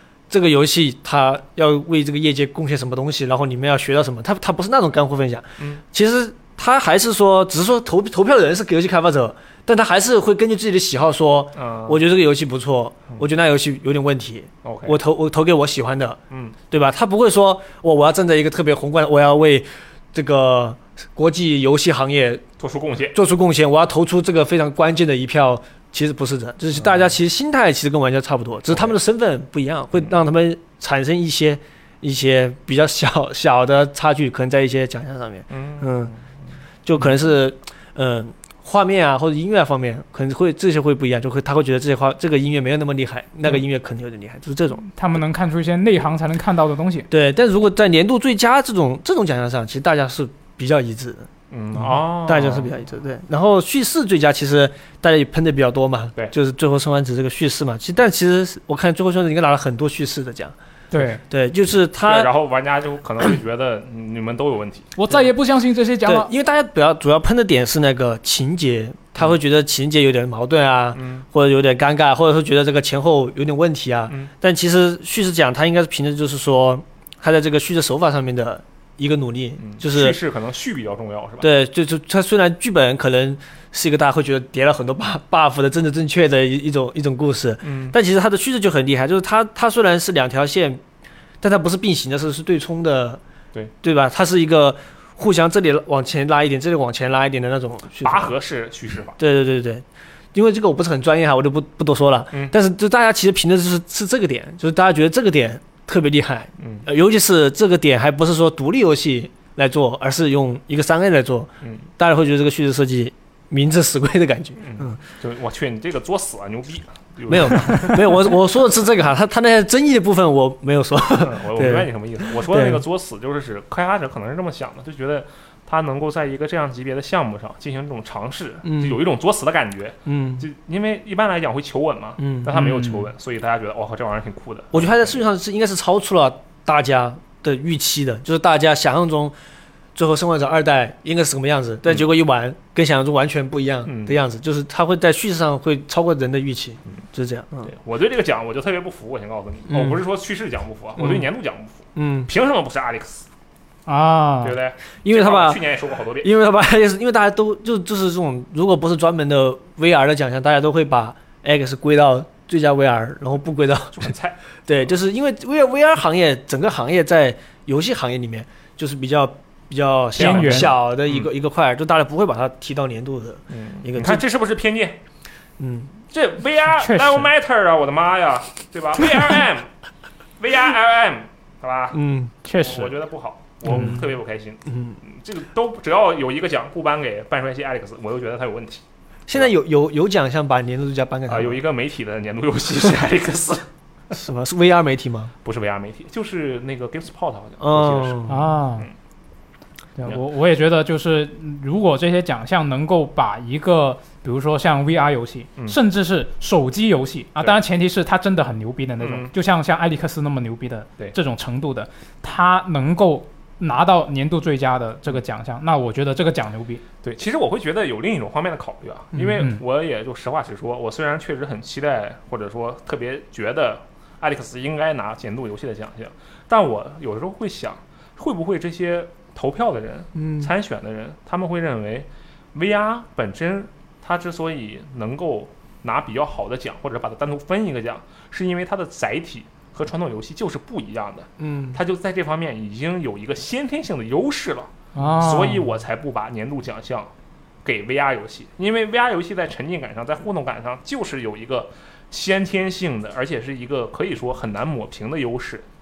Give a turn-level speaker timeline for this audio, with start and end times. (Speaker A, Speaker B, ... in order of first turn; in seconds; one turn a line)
Speaker A: 0.3-16.2
Speaker B: 11.6-12.0
Speaker B: 14.6-15.0
Speaker B: 16.3-16.6
Speaker A: 16.7-22.4
Speaker B: 22.6-23.2
Speaker A: 23.1-36.1
Speaker B: 28.7-29.0
Speaker B: 35.5-36.3
Speaker A: 36.9-44.9
Speaker C: 44.9-47.1
Speaker A: 47.1-60.5
Speaker B: 51.5-52.7
Speaker C: 60.9-61.2
Speaker A: 61.2-62.3
Speaker B: 62.0-65.0
Speaker C: 65.0-66.3
Speaker A: 66.0-80.2
Speaker B: 70.9-71.2
Speaker B: 79.6-81.5
Speaker A: 81.4-90.8
Speaker B: 87.6-88.0
Speaker A: 91.4-93.2
Speaker A: 93.8-98.3
Speaker B: 98.0-99.2
Speaker A: 99.2-115.0
Speaker B: 106.6-106.8
Speaker B: 111.6-111.9
Speaker B: 114.6-118.4
Speaker A: 117.3-122.8
Speaker B: 121.2-135.2
Speaker A: 128.6-129.0
Speaker A: 130.1-130.5
Speaker A: 132.2-132.5
Speaker C: 132.5-133.1
Speaker A: 134.7-139.4
Speaker A: 139.9-147.7
Speaker B: 143.8-144.2
Speaker B: 147.7-153.3
Speaker A: 149.7-150.0
Speaker A: 151.0-151.3
Speaker A: 151.9-152.3
Speaker C: 153.9-154.6
Speaker B: 154.4-156.3
Speaker A: 155.0-164.1
Speaker B: 163.9-164.4
Speaker A: 164.7-174.2
Speaker B: 170.2-171.3
Speaker C: 170.2-170.7
Speaker B: 173.5-175.0
Speaker A: 175.6-176.0
Speaker B: 176.1-179.7
Speaker C: 176.8-177.3
Speaker B: 180.4-182.0
Speaker A: 181.9-182.3
Speaker C: 182.4-182.9
Speaker B: 182.6-189.5
Speaker A: 183.7-184.0
Speaker A: 184.7-185.0
Speaker A: 189.3-191.6
Speaker B: 191.3-193.7
Speaker A: 194.1-195.3
Speaker B: 195.4-198.9
Speaker A: 197.6-198.4
Speaker C: 198.3-198.9
Speaker C: 200.0-216.8
Speaker B: 209.0-209.3
Speaker B: 217.0-247.1
Speaker C: 219.2-219.6
Speaker A: 230.2-230.5
Speaker A: 241.4-241.8
Speaker C: 244.9-245.7
Speaker B: 247.6-255.7